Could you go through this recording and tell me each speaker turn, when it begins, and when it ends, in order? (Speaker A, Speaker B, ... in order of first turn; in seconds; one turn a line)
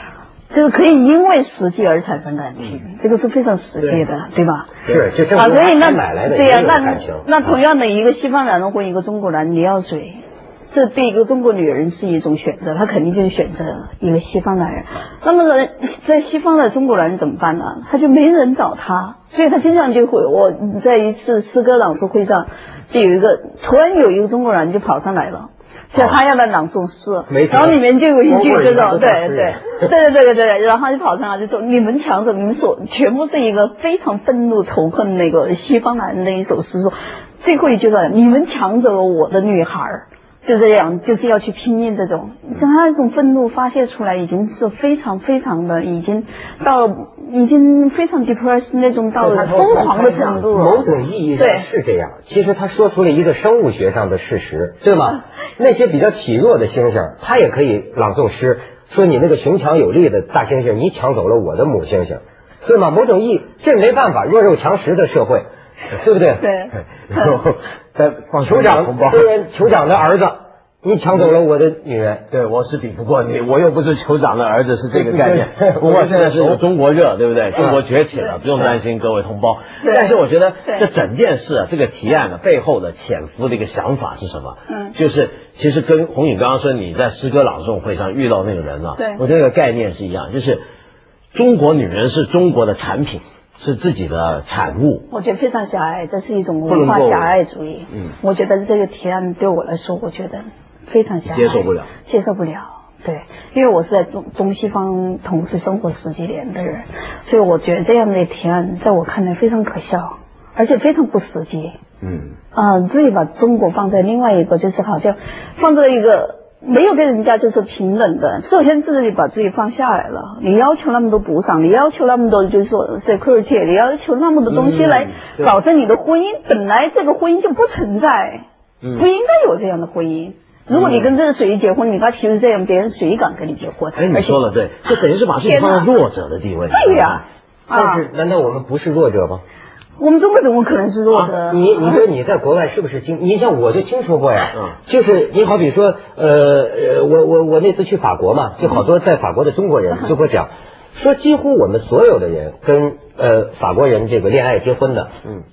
Speaker A: 0.5-51.7
Speaker B: 4.8-7.3
Speaker B: 25.9-26.2
Speaker B: 27.3-29.9
Speaker B: 49.2-66.5
Speaker A: 66.4-67.4
Speaker C: 67.1-69.3
Speaker B: 68.4-72.3
Speaker C: 72.3-90.6
Speaker B: 74.9-76.6
Speaker A: 79.8-80.9
Speaker A: 84.7-85.0
Speaker A: 89.0-89.2
Speaker C: 91.3-95.1
Speaker A: 95.1-111.8
Speaker C: 96.7-97.3
Speaker C: 101.3-101.9
Speaker C: 112.0-112.4
Speaker A: 112.5-128.4
Speaker C: 124.5-125.6
Speaker C: 128.8-129.1
Speaker A: 129.0-135.9
Speaker C: 130.7-131.2
Speaker C: 134.0-137.2
Speaker A: 136.7-138.1
Speaker B: 137.7-139.4
Speaker A: 140.0-142.1
Speaker B: 141.3-155.2